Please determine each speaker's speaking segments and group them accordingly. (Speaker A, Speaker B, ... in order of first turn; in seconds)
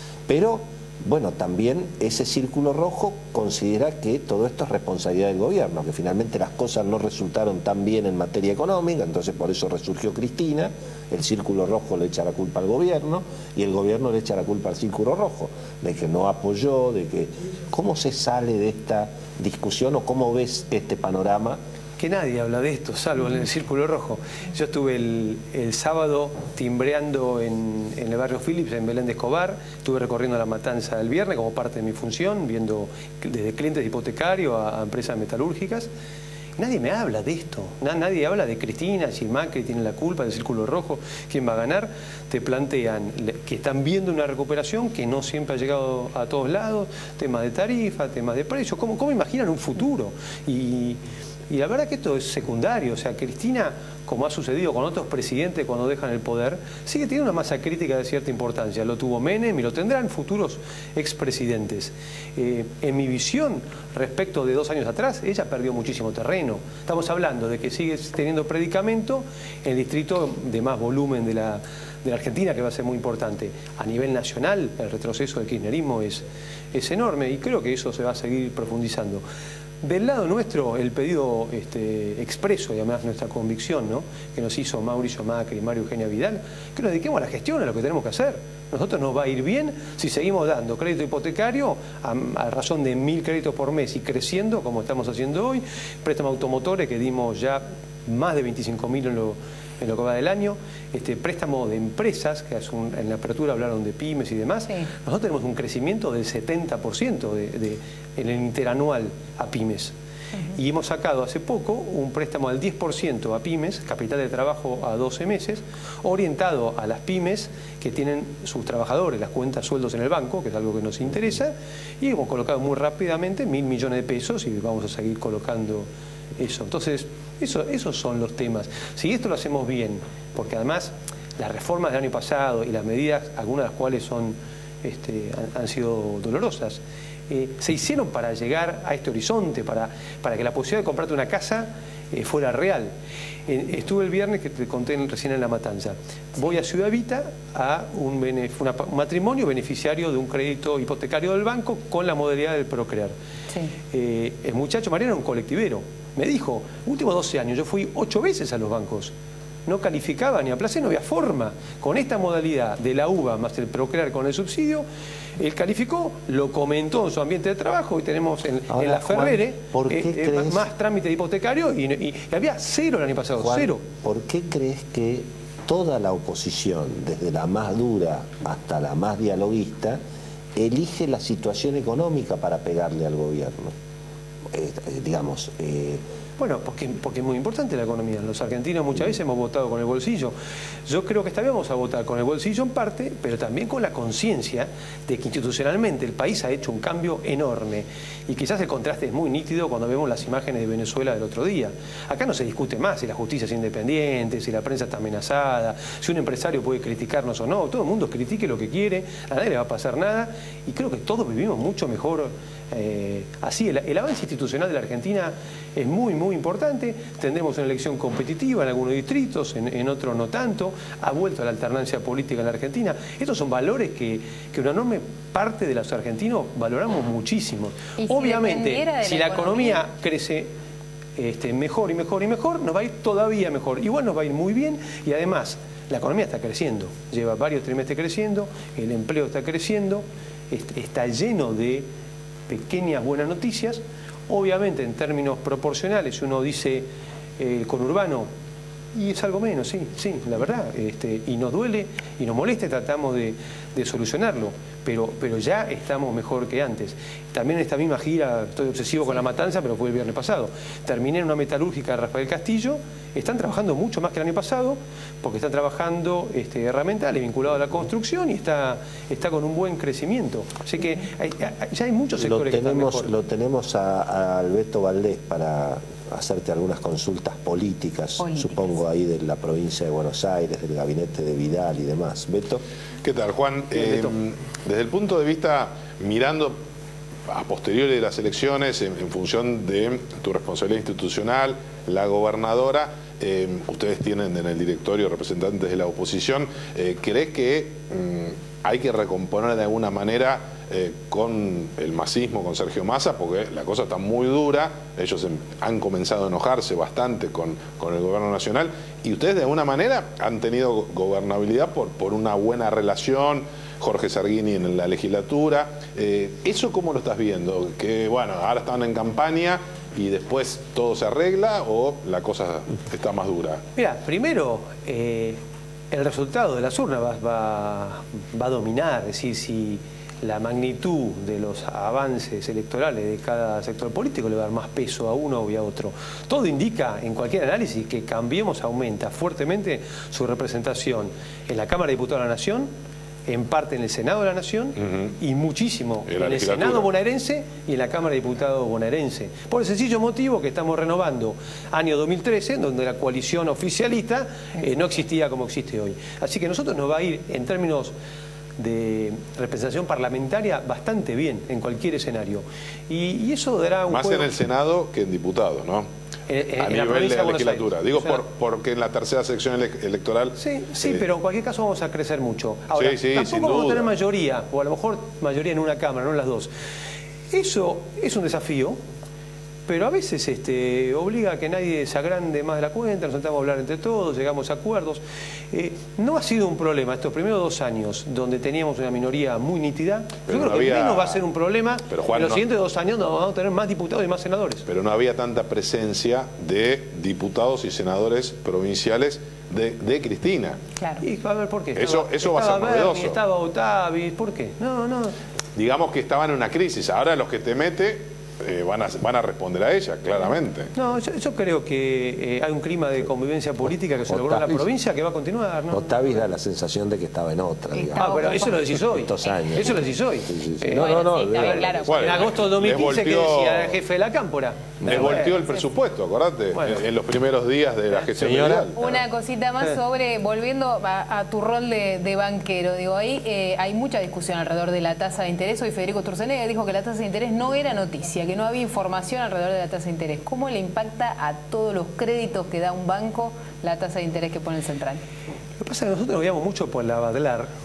Speaker A: 0.3-21.6, 168.7-170.7, 173.4-180.0, 180.6-183.8, 184.5-186.0, 272.2-282.6, 414.1-414.7, 415.7-422.3, 424.8-425.1, 428.2-428.6
Speaker B: 22.0-35.9, 36.6-79.2, 79.8-109.9, 110.5-142.9, 143.5-153.2, 153.9-159.1, 159.7-164.9, 165.4-173.8, 186.4-190.3, 190.9-230.5, 231.2-241.9, 242.5-246.9, 247.4-248.3, 248.9-273.1, 283.7-284.1, 323.8-325.4, 325.9-342.7, 343.3-357.9, 358.6-364.3, 366.3-368.2, 370.4-376.5, 377.3-378.8, 379.7-394.6, 401.0-405.1, 410.8-416.2, 418.0-425.6, 426.6-426.8, 445.6-447.5
Speaker C: 228.0-229.8, 278.2-278.8, 417.7-418.6, 420.8-422.1, 428.7-445.0
Speaker D: 283.0-286.5, 287.3-323.6, 344.8-345.1, 346.1-346.9, 363.9-365.9, 366.6-370.3, 372.7-373.9, 390.3-391.2, 391.9-392.4, 394.7-400.6, 401.8-403.2, 405.6-410.7, 421.9-423.7, 424.9-428.8